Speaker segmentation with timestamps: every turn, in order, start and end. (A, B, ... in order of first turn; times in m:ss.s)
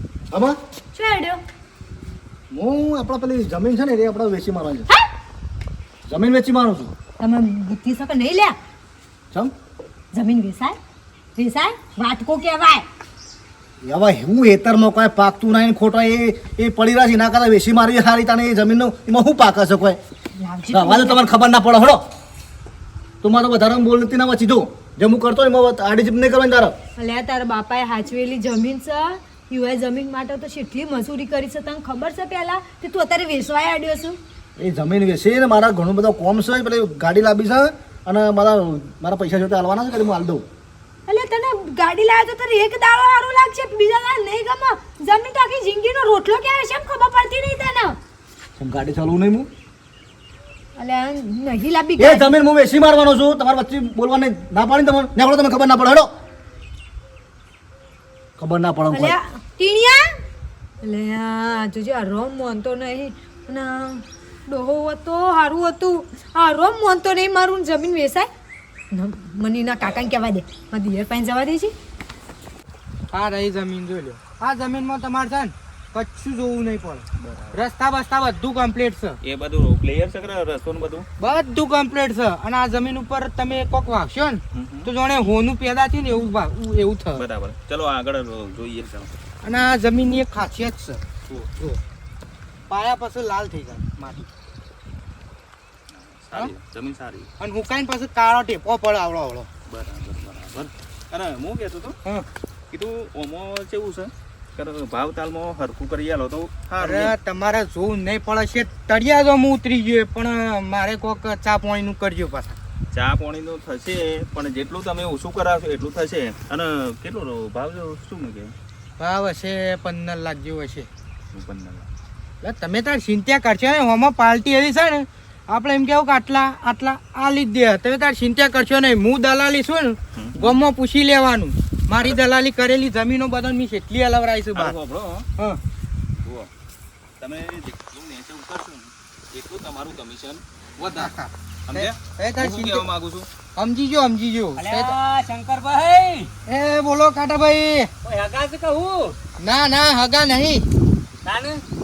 0:00.9-0:01.4 A
0:02.5-0:04.9 B
0:06.1-0:06.9 B
0:07.2-0:08.6 A
0:10.1-0:10.8 A
0:11.4-0:12.8 A
0:13.8-0:20.0 B
0:20.4-0:21.2 A
0:20.7-0:22.0 B
0:23.2-0:26.7 B
0:27.0-0:34.2 A
0:34.6-0:40.4 B
0:41.1-0:48.0 A
0:48.6-0:49.5 B
0:50.8-0:52.3 A
0:52.0-0:56.1 B
0:58.4-0:59.2 B
0:58.9-1:00.1 A
1:00.8-1:08.3 A
1:08.9-1:11.7 A
1:13.1-1:19.2 C
1:17.2-1:17.6 D
1:19.2-1:21.1 D
1:21.2-1:27.2 C
1:24.5-1:24.9 D
1:27.2-1:29.1 D
1:29.4-1:31.8 C
1:32.7-1:34.3 C
1:35.9-1:37.3 D
1:37.4-1:39.5 C
1:39.7-1:42.0 D
1:42.7-1:47.2 D
1:46.8-1:52.6 C
1:52.9-1:58.6 D
1:59.0-2:00.9 C
2:01.3-2:01.9 D
2:02.4-2:14.8 C
2:10.2-2:10.6 D
2:14.5-2:15.3 D
2:16.2-2:16.5 D
2:17.2-2:21.1 D
2:20.9-2:22.9 C
2:21.7-2:23.3 D
2:23.6-2:25.0 C
2:24.6-2:26.3 E
2:26.5-2:27.9 C
2:28.0-2:29.2 E
2:29.4-2:30.7 C
2:31.2-2:31.6 E